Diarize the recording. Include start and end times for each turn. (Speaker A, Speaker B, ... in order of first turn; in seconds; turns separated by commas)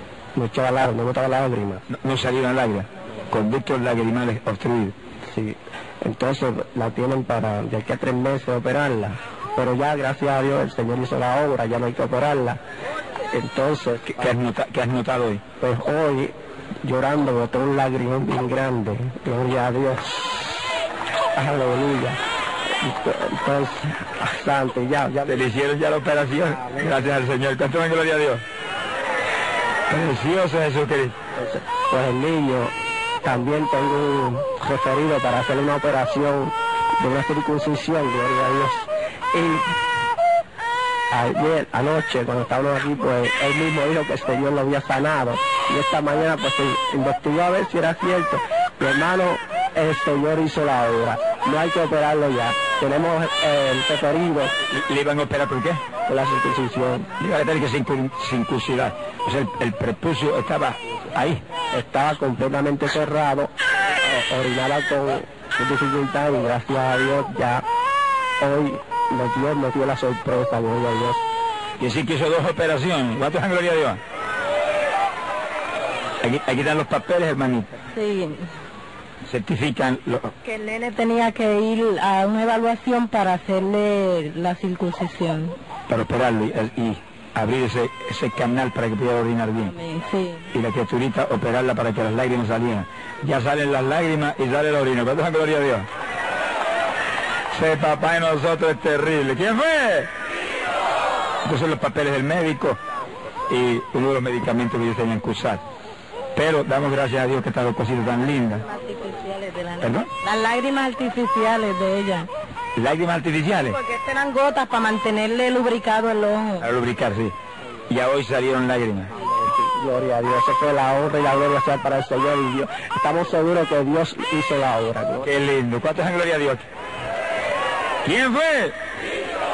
Speaker A: 0.3-1.9, Speaker B: 1.9-5.0, Speaker A: 5.3-12.6, Speaker A: 13.3-14.4, Speaker B: 14.2-15.4, Speaker A: 15.6-20.6, Speaker A: 21.3-25.5, Speaker B: 25.3-28.4, Speaker B: 29.9-31.2, Speaker A: 31.4-39.8, Speaker A: 41.1-54.5, Speaker B: 54.7-55.9, Speaker A: 56.1-57.1, Speaker B: 57.2-61.4, Speaker A: 61.7-67.6, Speaker A: 68.4-71.2, Speaker B: 71.8-74.0, Speaker B: 76.2-77.8, Speaker C: 77.9-78.5, Speaker B: 79.3-80.3, Speaker C: 80.4-85.6, Speaker B: 85.9-89.8, Speaker C: 89.7-90.5, Speaker B: 90.5-95.9, Speaker B: 97.5-100.1, Speaker B: 101.5-102.8, Speaker B: 103.5-105.6, Speaker B: 106.3-108.7, Speaker C: 108.7-112.3, Speaker B: 109.8-110.1, Speaker B: 112.8-113.8, Speaker C: 113.7-116.7, Speaker B: 116.6-117.3, Speaker B: 117.9-119.1, Speaker A: 119.3-125.3, Speaker B: 125.2-126.7, Speaker B: 128.0-128.8